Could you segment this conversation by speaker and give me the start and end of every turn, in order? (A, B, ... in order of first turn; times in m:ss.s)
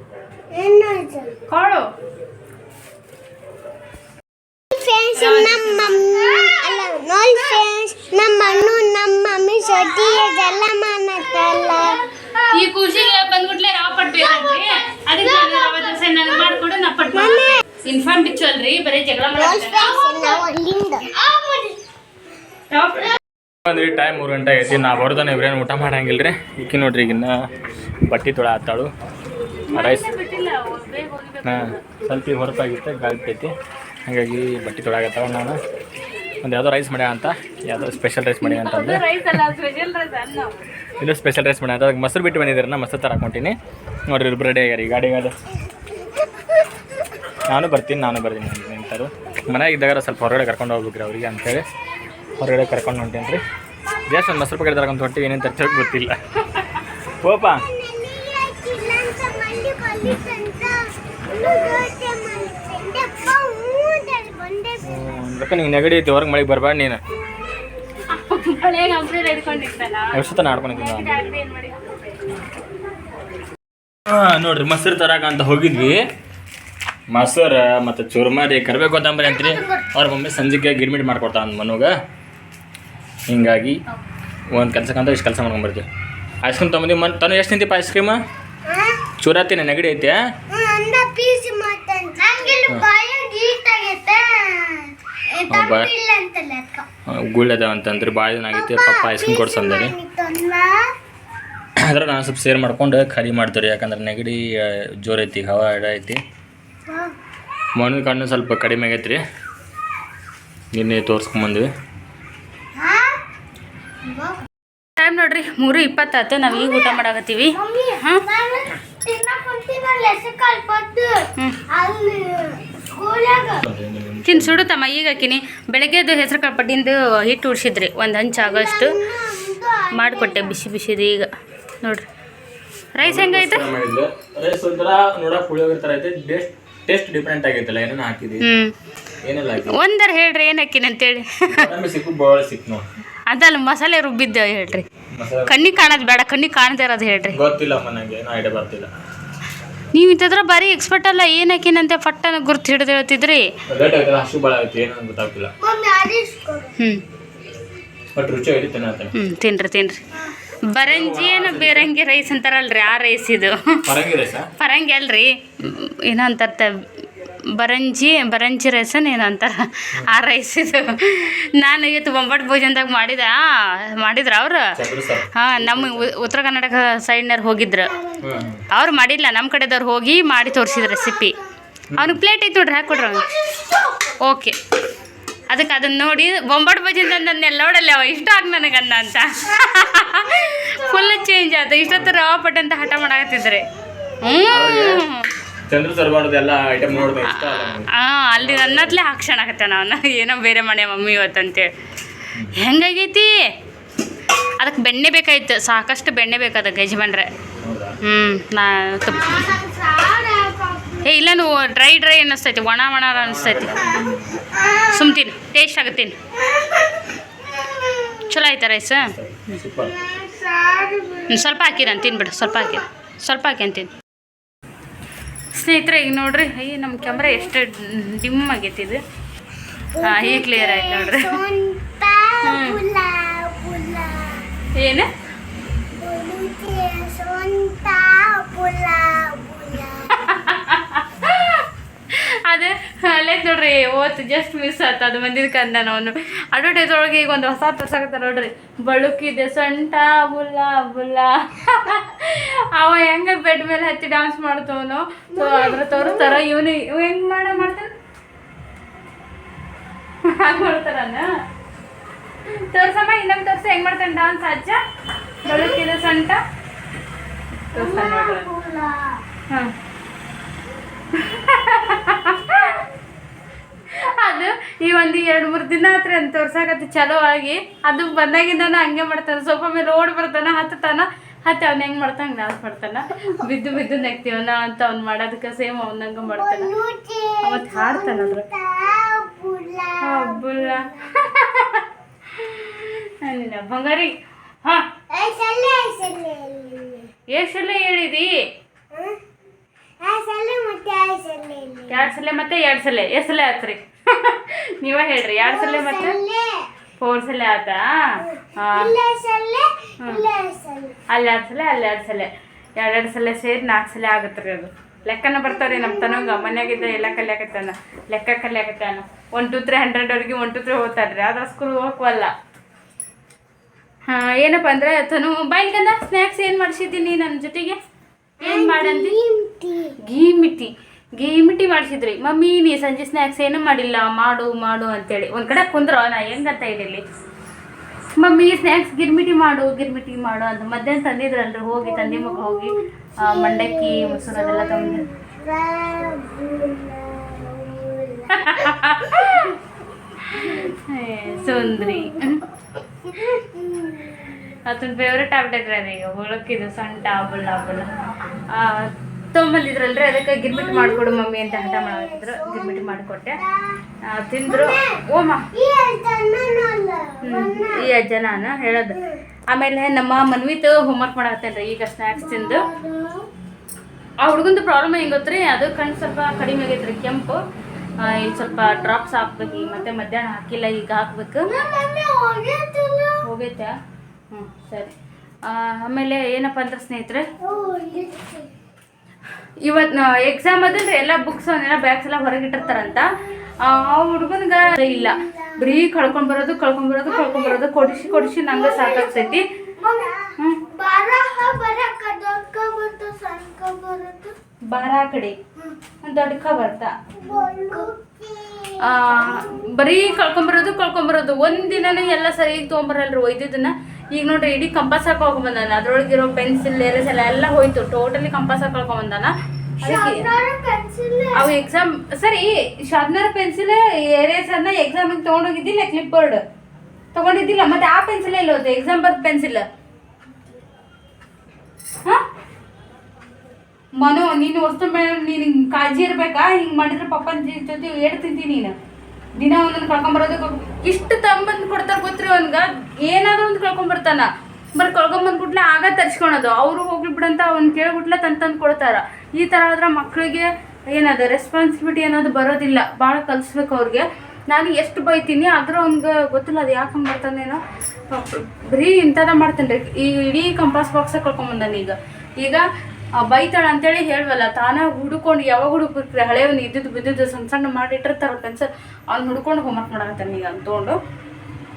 0:00.5-0:01.4 A
0:01.5-0:01.9 B
0:04.7-0:12.5 A
0:05.1-0:06.4 B
0:12.5-0:20.4 B
0:14.2-0:14.7 A
0:15.2-0:16.4 A
0:17.1-0:17.6 A
0:19.3-0:21.8 A
0:22.7-0:23.2 B
0:23.6-0:27.3 C
0:28.1-0:28.9 C
0:29.7-0:31.8 B
0:29.7-0:30.1 C
0:31.4-0:33.5 C
0:34.0-0:35.6 C
0:36.4-0:39.0 C
0:38.4-0:40.5 B
0:41.0-0:43.6 C
0:44.1-0:45.4 C
0:47.5-0:51.7 C
0:52.4-0:53.4 C
0:54.1-0:56.2 C
0:57.2-0:57.6 C
0:57.4-1:04.9 A
1:04.8-1:07.0 C
1:08.1-1:12.2 B
1:10.1-1:11.2 C
1:14.1-1:16.1 C
1:17.1-1:21.9 C
1:19.2-1:19.8 A
1:23.3-1:23.8 C
1:24.5-1:25.8 C
1:26.4-1:28.2 C
1:28.6-1:29.0 A
1:29.2-1:30.2 C
1:30.5-1:36.8 A
1:35.5-1:35.9 C
1:37.1-1:40.0 C
1:38.5-1:40.9 A
1:41.8-1:46.2 C
1:46.9-1:47.1 A
1:47.7-1:49.2 C
1:50.7-1:51.7 C
1:52.8-1:53.2 A
1:54.0-1:54.4 A
1:55.0-1:58.2 B
1:56.5-1:57.0 A
1:57.5-2:03.6 A
2:03.6-2:04.6 C
2:04.2-2:09.0 B
2:08.4-2:10.5 A
2:09.9-2:11.3 B
2:12.9-2:13.6 B
2:13.0-2:18.5 C
2:18.4-2:18.7 B
2:19.2-2:19.8 C
2:19.6-2:21.7 B
2:21.5-2:22.8 C
2:23.3-2:24.8 B
2:25.1-2:25.6 C
2:25.4-2:27.4 B
2:27.3-2:28.9 C
2:29.9-2:33.5 B
2:33.7-2:35.5 C
2:35.6-2:36.7 A
2:36.8-2:37.0 B
2:38.1-2:39.1 C
2:39.1-2:40.0 B
2:40.7-2:43.9 B
2:40.8-2:41.9 C
2:43.8-2:44.5 C
2:44.6-2:46.8 B
2:47.5-2:54.7 B
2:54.7-2:56.2 C
2:55.3-2:57.9 B
2:58.2-2:58.6 C
2:58.7-3:01.4 B
3:00.6-3:01.3 A
3:02.0-3:03.3 B
3:03.1-3:03.8 A
3:04.2-3:04.6 B
3:05.5-3:13.6 B
3:11.9-3:12.1 C
3:14.2-3:15.3 B
3:14.4-3:15.0 C
3:15.7-3:19.0 C
3:17.2-3:21.7 B
3:22.5-3:23.5 B
3:24.6-3:27.3 B
3:27.6-3:28.0 C
3:28.0-3:29.6 B
3:29.1-3:31.1 A
3:31.0-3:33.9 B
3:33.2-3:34.4 C
3:34.5-3:35.1 A
3:34.9-3:36.2 B
3:36.4-3:38.3 A
3:38.2-3:39.6 B
3:39.0-3:39.9 C
3:39.9-3:41.4 A
3:41.3-3:43.9 B
3:45.5-3:49.0 B
3:47.2-3:47.5 A
3:49.9-3:54.5 A
3:50.0-3:51.4 B
3:52.4-3:52.8 B
3:54.7-3:55.1 B
3:56.0-4:00.2 A
4:00.1-4:17.9 B
4:15.3-4:16.4 A
4:20.2-4:21.3 B
4:22.5-4:24.8 B
4:25.4-4:26.4 B
4:25.5-4:25.8 A
4:27.7-4:28.5 B
4:27.7-4:29.2 A
4:31.1-4:32.8 B
4:33.9-4:46.7 B
4:46.2-4:51.2 A
4:47.4-4:48.4 B
4:50.0-4:54.9 B
4:55.1-4:57.1 A
4:57.3-4:58.5 B
4:58.9-4:59.2 A
5:00.0-5:02.0 A
5:01.9-5:06.2 B
5:05.4-5:06.7 A
5:07.0-5:08.9 B
5:08.7-5:11.0 A
5:11.1-5:22.3 B
5:15.5-5:17.2 A
5:24.1-5:27.8 B
5:28.4-5:29.2 B
5:28.4-5:30.0 A
5:30.0-5:37.0 B
5:38.2-5:45.0 B
5:41.8-5:49.6 A
5:48.3-5:49.6 B
5:50.2-5:52.4 B
5:50.4-5:50.7 A
5:51.4-5:52.3 A
5:53.0-5:54.5 A
5:54.6-5:57.9 B
5:58.5-6:03.4 B
6:00.5-6:03.8 A
6:04.1-6:05.5 B
6:04.4-6:07.9 A
6:07.2-6:09.0 B
6:09.5-6:12.6 B
6:12.2-6:13.3 A
6:14.2-6:17.4 B
6:18.0-6:21.5 B
6:21.5-6:23.2 A
6:23.2-6:23.7 B
6:24.3-6:24.9 B
6:25.4-6:27.3 B
6:27.4-6:28.5 A
6:29.6-6:33.1 B
6:33.6-6:39.4 B
6:34.8-6:35.7 A
6:37.1-6:44.3 A
6:40.4-6:40.6 B
6:44.7-6:45.4 B
6:46.0-6:46.9 B
6:47.2-6:49.6 A
6:48.8-7:00.2 B
6:59.8-7:01.5 A
7:01.3-7:06.4 B
7:07.1-7:09.6 B
7:14.0-7:18.7 B
7:19.4-7:37.6 B
7:38.1-7:42.6 B
7:43.2-7:50.9 B